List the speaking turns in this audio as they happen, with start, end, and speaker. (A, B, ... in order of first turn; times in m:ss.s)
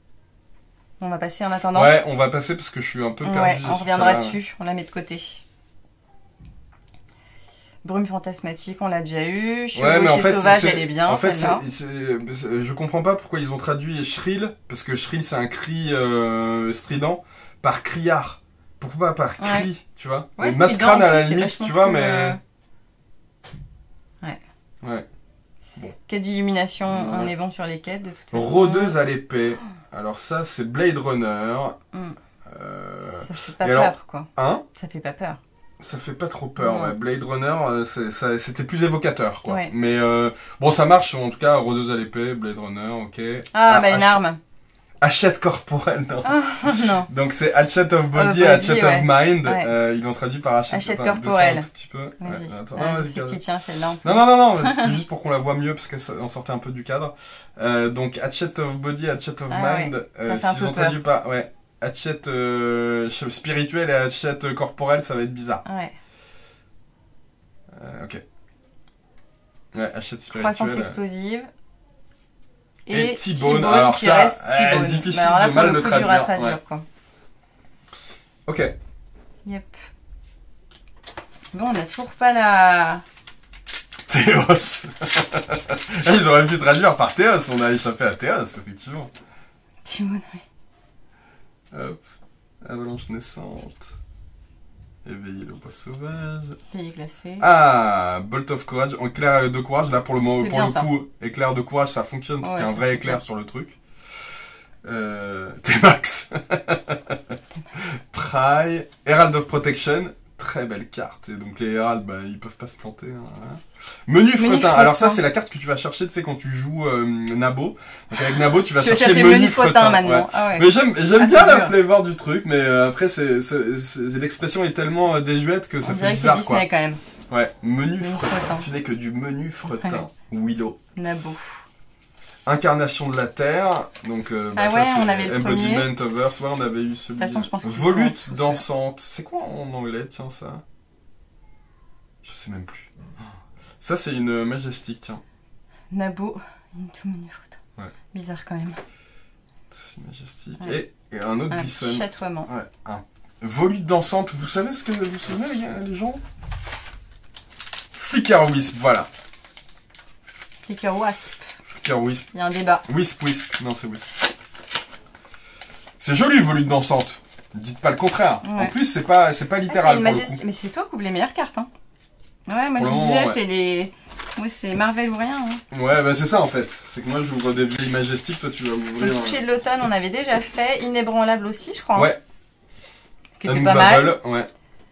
0:01.0-0:01.9 A
0:01.7-0:04.4 B
0:03.2-0:05.4 A
0:07.8-0:11.6 A
0:09.7-0:22.4 B
0:19.4-0:19.7 A
0:20.4-0:22.4 A
0:26.1-0:29.0 A
0:26.9-0:27.3 B
0:28.3-0:31.8 B
0:31.9-0:32.2 A
0:32.5-0:34.6 B
0:33.1-0:35.4 A
0:35.8-0:44.2 B
0:36.6-0:36.9 A
0:39.4-0:39.7 A
0:43.5-0:44.4 A
0:45.0-0:53.4 B
0:46.2-0:47.1 A
0:48.1-0:49.7 A
0:50.7-0:51.7 A
0:52.2-0:55.0 A
0:54.0-1:05.6 B
0:59.5-1:01.0 A
1:05.6-1:05.9 A
1:07.7-1:08.2 B
1:09.7-1:11.0 B
1:10.3-1:11.5 A
1:12.9-1:16.8 A
1:12.9-1:16.6 B
1:18.5-1:18.7 B
1:19.4-1:19.8 A
1:21.5-1:23.0 A
1:24.1-1:29.1 B
1:29.8-1:30.4 A
1:31.7-1:32.0 B
1:32.6-1:34.0 B
1:35.0-1:36.6 B
1:36.7-1:37.5 A
1:37.4-1:43.8 B
1:40.4-1:40.9 A
1:42.4-1:43.2 A
1:44.8-2:06.6 B
1:54.4-1:55.2 A
1:58.8-2:01.7 A
2:05.8-2:07.0 A
2:07.3-2:10.8 B
2:08.0-2:08.7 A
2:09.7-2:10.0 A
2:11.0-2:11.6 A
2:12.4-2:20.6 B
2:14.6-2:15.9 A
2:17.2-2:18.6 A
2:22.2-2:22.9 B
2:23.8-2:25.2 B
2:25.9-2:27.6 A
2:28.1-2:28.8 A
2:29.7-2:36.2 B
2:31.5-2:32.5 A
2:37.9-2:39.1 B
2:40.6-2:41.5 A
2:41.7-2:42.3 B
2:42.3-2:42.8 A
2:42.8-2:44.1 B
2:46.0-2:50.4 B
2:48.4-2:48.7 A
2:49.7-2:51.7 A
2:52.5-2:55.6 A
2:52.8-2:53.4 B
2:55.7-2:59.4 B
2:59.0-3:02.1 A
3:03.4-3:04.2 A
3:03.4-3:04.5 B